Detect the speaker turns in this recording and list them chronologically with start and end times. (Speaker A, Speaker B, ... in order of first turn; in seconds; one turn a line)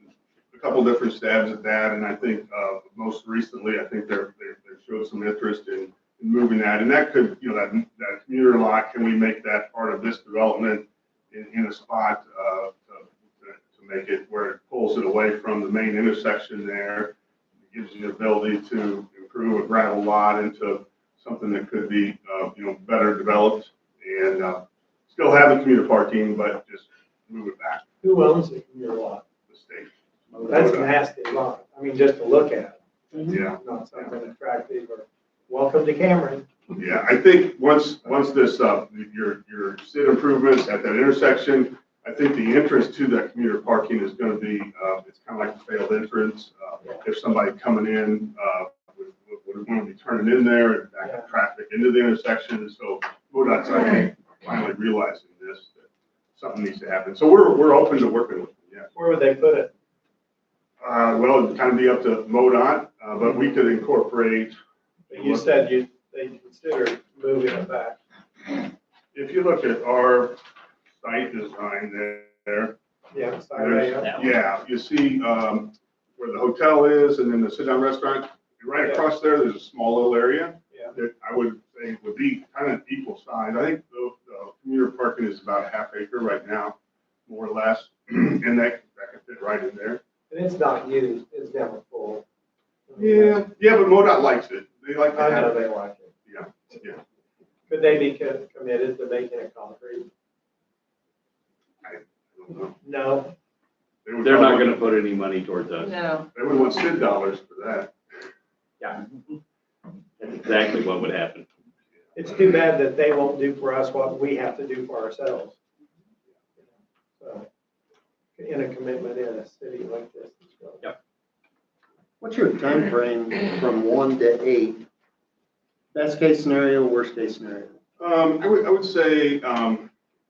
Speaker A: 0.5-27.8
Speaker B: 28.0-29.2
Speaker A: 29.5-30.9
Speaker B: 30.4-36.5
Speaker A: 33.3-34.1
Speaker A: 36.7-58.9
Speaker B: 59.0-59.7
Speaker A: 60.8-64.6
Speaker A: 65.1-65.5
Speaker B: 65.1-68.0
Speaker A: 69.1-70.4
Speaker A: 71.0-72.8
Speaker B: 73.1-74.1
Speaker A: 73.5-90.0
Speaker C: 74.0-74.3
Speaker B: 90.3-92.2
Speaker B: 92.9-93.4
Speaker A: 93.0-95.6
Speaker B: 95.2-96.1
Speaker A: 96.3-97.0
Speaker B: 97.7-100.1
Speaker A: 101.8-102.8
Speaker B: 102.8-103.3
Speaker A: 104.0-105.0
Speaker C: 104.2-106.0
Speaker A: 106.3-107.9
Speaker C: 108.8-109.1
Speaker C: 110.2-111.5
Speaker B: 112.1-115.6
Speaker B: 117.2-117.5
Speaker B: 118.4-120.9
Speaker D: 122.2-124.8
Speaker D: 125.9-127.8
Speaker A: 128.0-129.9